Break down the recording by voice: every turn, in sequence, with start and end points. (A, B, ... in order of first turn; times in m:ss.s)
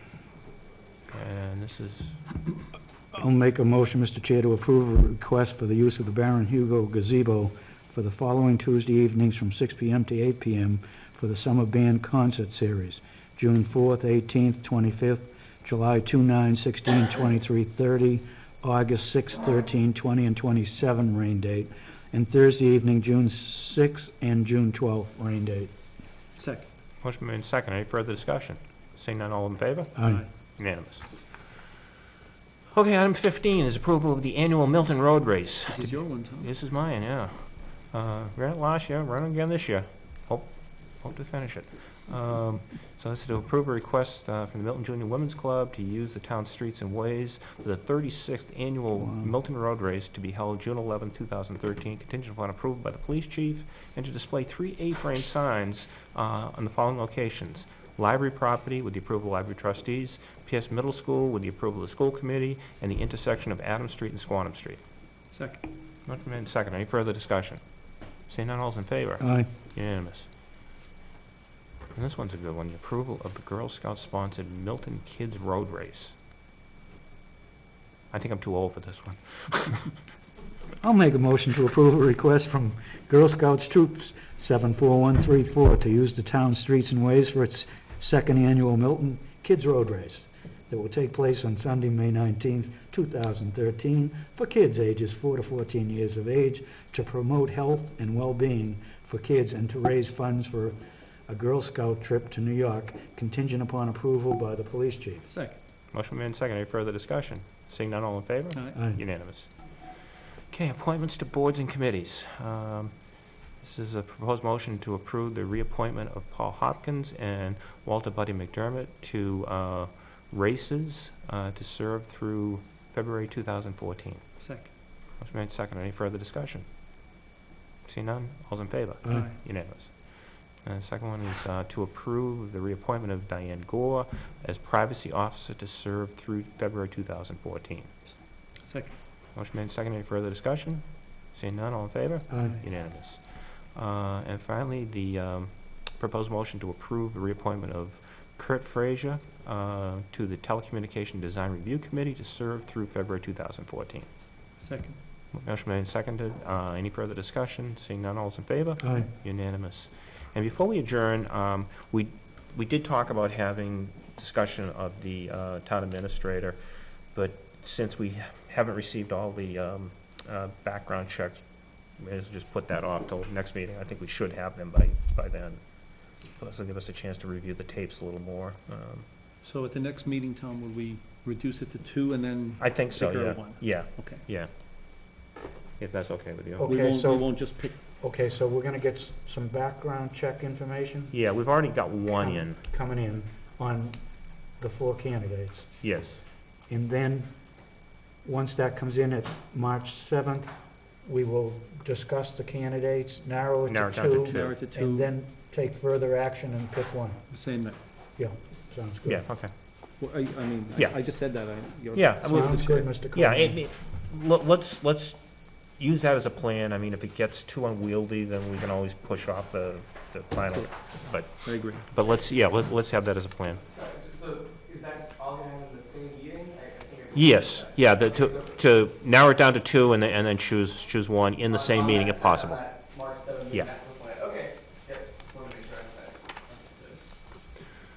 0:01.1-0:02.2 A
0:03.1-0:25.7 B
0:26.4-0:26.6 C
0:27.0-0:31.1 A
0:30.0-0:30.2 B
0:30.0-0:30.3 C
0:32.7-1:04.8 A
0:35.7-0:36.5 C
0:49.0-0:49.3 B
1:05.3-1:05.6 C
1:06.0-1:07.6 A
1:08.3-1:10.3 A
1:09.2-1:09.5 B
1:11.9-1:16.2 A
1:18.1-1:19.9 A
1:20.8-1:40.8 B
1:41.3-1:45.2 B
1:45.3-1:45.6 C
1:45.9-1:49.5 A
1:48.5-1:48.8 C
1:50.5-1:52.9 A
1:53.6-2:04.2 A
2:04.4-2:04.7 C
2:05.2-2:06.7 A
2:07.9-2:10.1 A
2:09.0-2:09.4 C
2:10.6-2:17.9 A
2:18.6-2:18.9 C
2:19.4-2:34.1 A
2:22.3-2:22.6 B
2:34.6-2:35.0 C
2:35.3-2:46.6 A
2:38.8-2:39.1 B
2:47.1-2:51.4 A
2:52.0-2:55.6 A
2:56.4-2:59.1 A
2:59.4-3:04.2 C
3:02.6-3:04.5 A
3:05.8-3:06.7 A
3:06.6-3:07.3 B
3:06.6-3:07.7 C
3:08.0-3:11.1 B
3:11.1-3:12.6 A
3:12.3-3:14.0 B
3:14.6-3:15.7 B
3:15.8-3:16.2 A
3:16.7-3:17.3 B
3:18.2-3:20.5 B
3:21.0-3:27.2 B
3:23.7-3:24.6 A
3:24.3-3:25.1 C
3:27.3-3:27.8 C
3:28.2-3:29.2 B
3:29.1-3:29.5 A
3:30.0-3:32.9 C
3:31.9-3:35.2 A
3:32.3-3:33.6 B
3:35.8-3:43.6 A
3:41.4-3:41.8 C
3:43.7-3:48.5 D
3:47.1-3:52.7 A
3:51.5-3:57.0 D